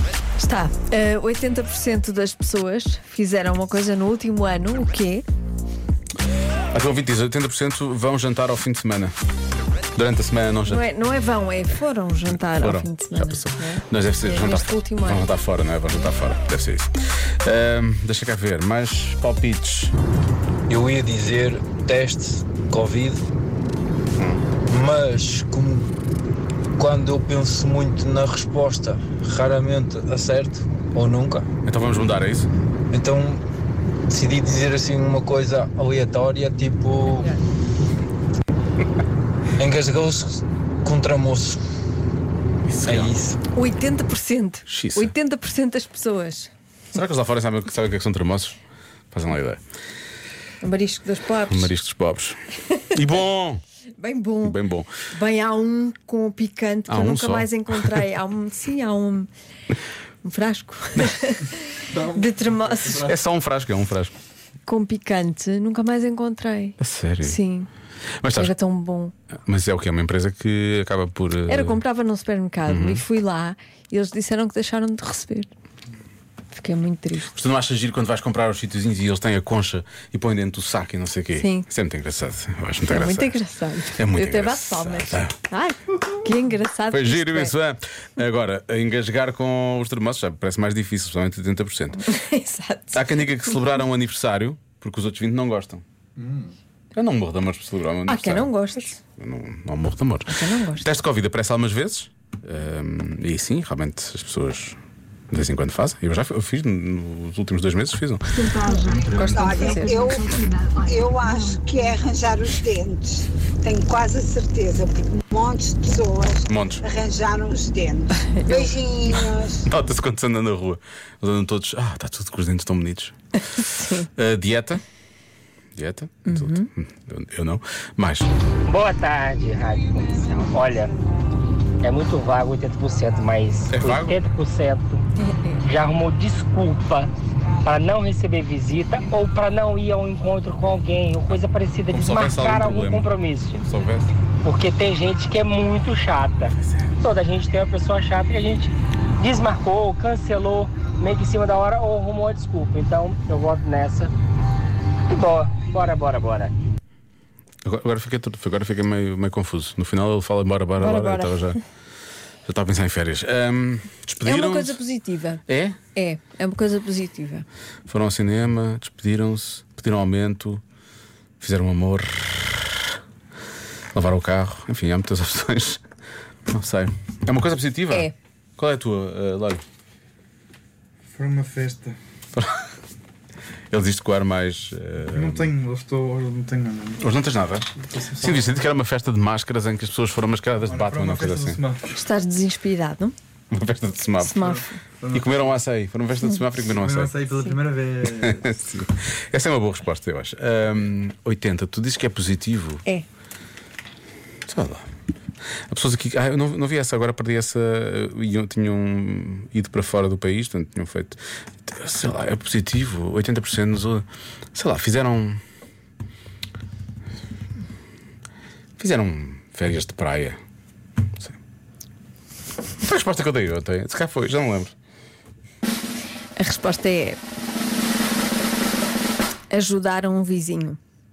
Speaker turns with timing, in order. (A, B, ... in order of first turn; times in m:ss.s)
0:00.4-0:05.2 A
0:06.7-0:09.1 B
0:10.0-0:10.9 B
0:10.7-0:15.3 A
0:12.3-0:16.9 B
0:17.4-0:19.9 B
0:20.7-0:23.2 C
0:24.2-0:24.4 B
0:24.7-0:25.9 C
0:26.8-0:31.5 C
0:31.6-0:32.5 B
0:32.9-0:33.4 C
0:34.1-0:37.3 C
0:37.1-0:37.4 A
0:39.6-0:41.6 C
0:42.7-0:43.1 B
0:42.8-0:43.4 C
0:43.5-0:46.5 A
0:44.7-0:45.1 B
0:46.9-0:48.6 B
0:49.1-0:49.6 B
0:50.6-0:51.7 A
0:51.4-0:52.4 B
0:52.7-0:53.0 A
0:52.9-0:53.6 B
0:54.0-0:59.3 A
0:54.4-0:54.9 B
0:56.9-0:58.0 B
1:00.2-1:03.1 A
1:01.9-1:02.3 D
1:02.8-1:04.1 B
1:04.7-1:07.7 A
1:06.8-1:07.4 B
1:08.2-1:08.5 B
1:08.3-1:09.1 A
1:09.5-1:11.8 B
1:11.5-1:15.5 A
1:12.7-1:13.0 B
1:16.5-1:17.3 A
1:17.3-1:23.4 B
1:21.4-1:21.7 A
1:22.9-1:27.6 A
1:23.9-1:25.3 B
1:26.9-1:32.0 B
1:32.0-1:33.6 A
1:32.9-1:35.8 B
1:36.2-1:36.5 D
1:36.9-1:44.8 B
1:38.1-1:39.0 A
1:40.3-1:40.9 A
1:45.3-1:48.5 B
1:48.5-1:50.7 D
1:48.6-1:50.2 A
1:49.1-1:59.7 E
1:56.5-1:56.8 B
1:58.2-1:58.8 A
1:59.7-2:03.2 B
2:03.6-2:04.1 A
2:04.0-2:04.8 B
2:05.8-2:08.3 B
2:06.2-2:06.7 A
2:08.7-2:10.9 F
2:11.8-2:15.1 F
2:13.7-2:14.2 B
2:15.2-2:15.6 A
2:15.6-2:17.1 F
2:17.6-2:23.6 F
2:21.9-2:24.1 B
2:24.4-2:34.1 F
2:26.6-2:26.9 B
2:35.1-2:36.5 F
2:37.6-2:41.6 B
2:40.8-2:41.6 A
2:42.4-2:44.8 B
2:44.2-2:47.5 A
2:45.5-2:45.8 B
2:47.9-2:50.6 B
2:51.4-2:53.0 B
2:53.9-2:55.8 B
2:56.5-2:59.6 B
3:01.1-3:02.0 D
3:02.4-3:02.6 B
3:03.7-3:05.6 B
3:05.1-3:07.0 D
3:07.0-3:11.6 B
3:07.9-3:08.4 D
3:10.7-3:12.0 D
3:11.9-3:13.2 A
3:13.5-3:14.6 B
3:14.2-3:14.8 A
3:14.4-3:15.3 D
3:15.1-3:17.1 B
3:16.7-3:18.4 D
3:18.2-3:22.8 B
3:24.5-3:24.9 B
3:25.7-3:35.4 B
3:38.8-3:40.4 B
3:42.8-3:44.7 B
3:46.4-3:47.2 A
3:49.5-3:50.8 A